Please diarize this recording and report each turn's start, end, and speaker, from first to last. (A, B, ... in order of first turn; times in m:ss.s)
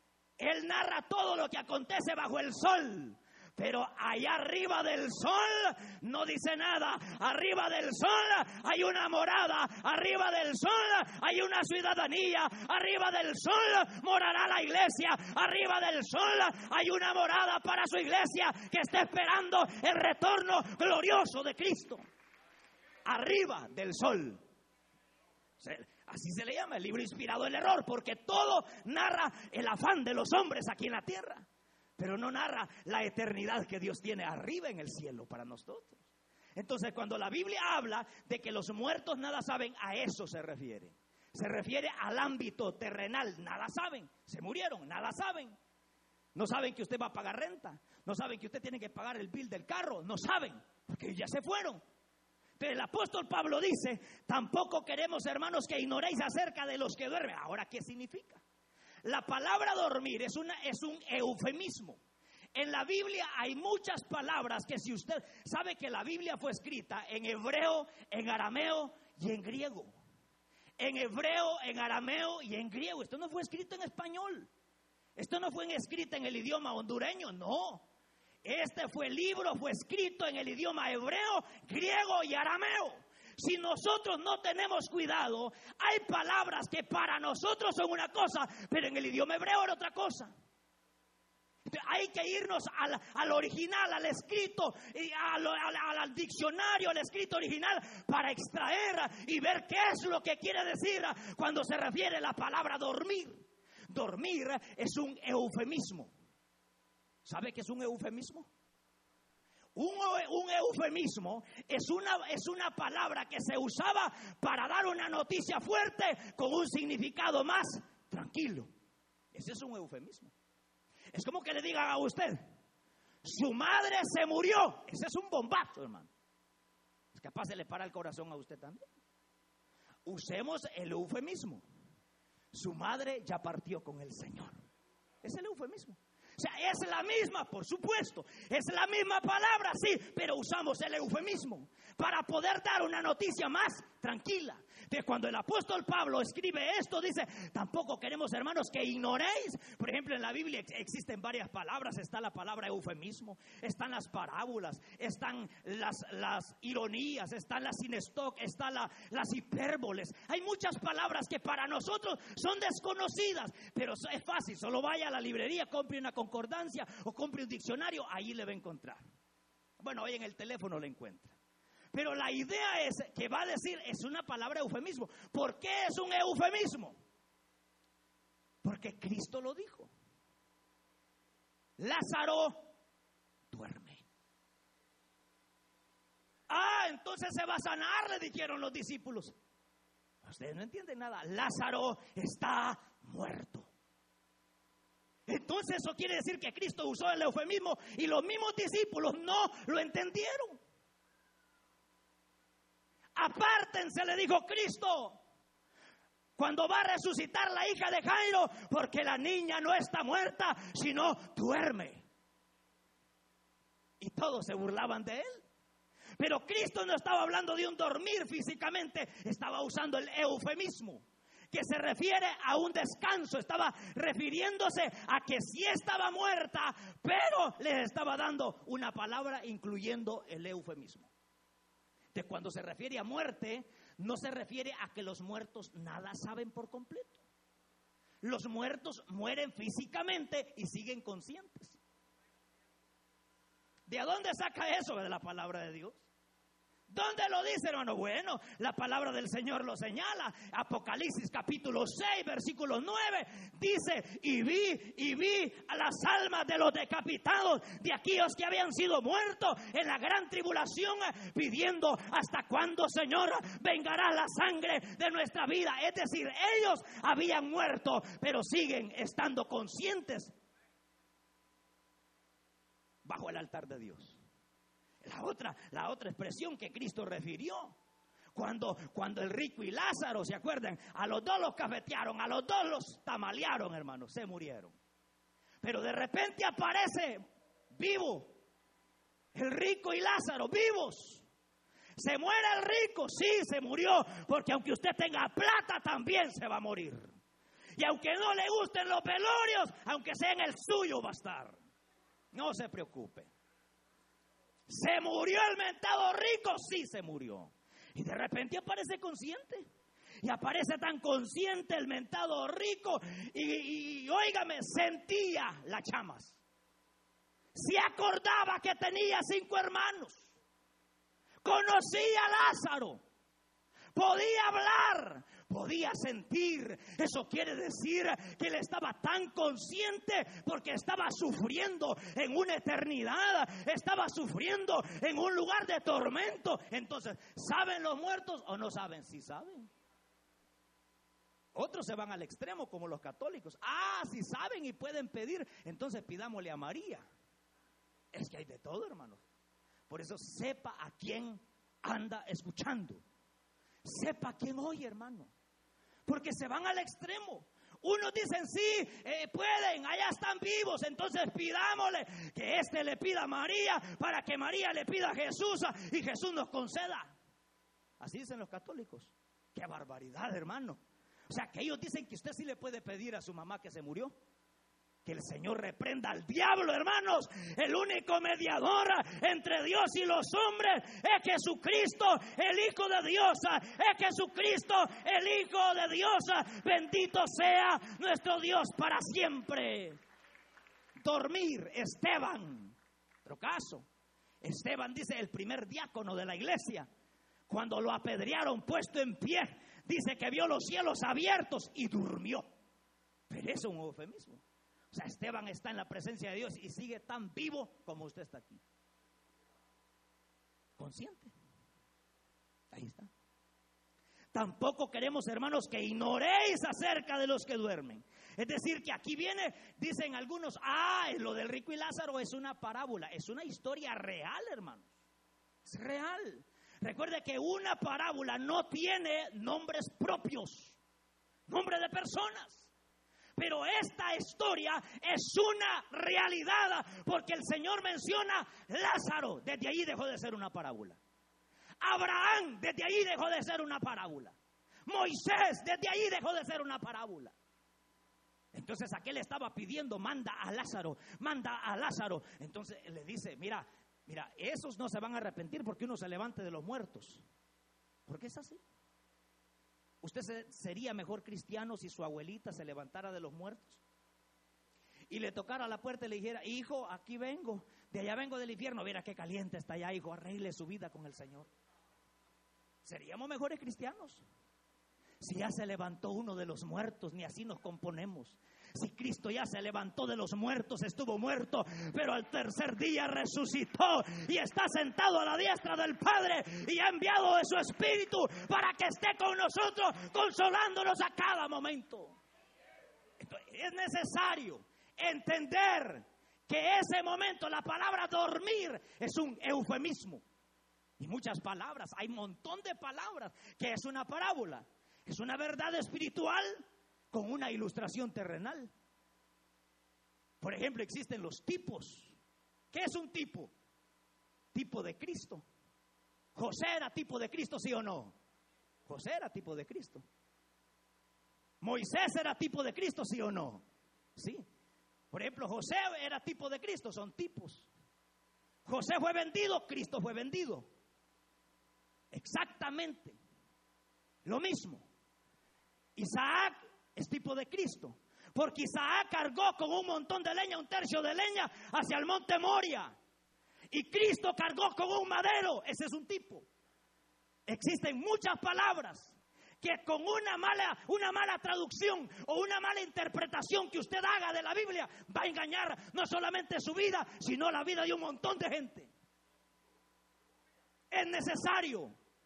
0:00.4-0:22.0 A
0:23.0-0:24.4 A
0:25.6-0:31.5 A
0:32.0-0:36.0 A
0:36.6-0:45.6 A
0:46.4-0:51.8 A
0:52.6-0:58.4 A
0:59.0-1:02.0 A
1:02.5-1:09.9 A
1:10.8-1:14.5 A
1:15.2-1:17.8 A
1:18.4-1:30.3 A
1:31.7-1:46.1 A
1:47.2-1:48.5 A
1:49.8-1:58.7 A
1:59.3-2:00.3 A
2:01.1-2:02.5 A
2:03.2-2:06.1 A
2:07.1-2:08.8 A
2:10.0-2:11.6 A
2:12.5-2:14.5 A
2:15.2-2:49.0 A
2:49.8-2:51.4 A
2:51.9-2:57.0 A
2:58.6-2:59.9 A
3:01.8-3:02.7 A
3:03.5-3:04.0 A
3:06.5-3:09.4 A
3:10.2-3:13.7 A
3:15.3-3:20.6 A
3:23.2-3:25.2 A
3:26.4-3:32.0 A
3:34.0-3:35.4 A
3:36.2-3:51.1 A
3:52.1-3:57.2 A
3:58.2-4:01.8 A
4:03.9-4:06.0 A
4:06.9-4:30.4 A
4:33.0-4:34.2 A
4:35.0-4:37.8 A
4:38.3-4:44.8 A
4:45.6-4:48.3 A
4:49.3-4:51.3 A
4:52.0-4:57.2 A
4:57.8-5:01.6 A
5:02.3-5:03.3 A
5:04.7-5:09.7 A
5:10.2-5:16.4 A
5:17.5-5:20.3 A
5:21.4-5:23.0 A
5:23.9-5:39.7 A
5:41.6-5:47.1 A
5:48.1-5:49.2 A
5:49.9-5:53.0 A
5:53.8-5:55.3 A
5:56.1-6:07.2 A
6:08.0-6:14.2 A
6:15.0-6:30.0 A
6:31.0-6:33.9 A
6:34.4-6:36.9 A
6:37.5-6:42.5 A
6:43.3-6:48.6 A
6:50.8-6:51.3 A
6:52.7-6:53.1 A
6:54.3-7:04.9 A
7:05.6-7:10.8 A
7:11.5-7:12.7 A
7:13.4-7:21.0 A
7:21.8-7:27.4 A
7:28.5-7:37.2 A
7:38.1-7:38.6 A
7:40.0-7:43.8 A
7:45.1-7:51.5 A
7:52.8-7:54.2 A
7:55.2-8:12.2 A
8:13.2-8:20.2 A
8:21.0-8:28.7 A
8:30.4-8:32.2 A
8:32.7-8:33.5 A
8:34.5-8:35.4 A
8:36.4-8:38.2 A
8:38.9-8:40.0 A
8:41.6-8:43.6 A
8:44.2-8:44.5 A
8:45.1-8:47.7 A
8:48.6-8:50.7 A
8:52.1-8:53.2 A
8:54.2-8:54.8 A
8:56.0-9:03.0 A
9:03.7-9:06.5 A
9:07.5-9:18.9 A
9:20.9-9:21.9 A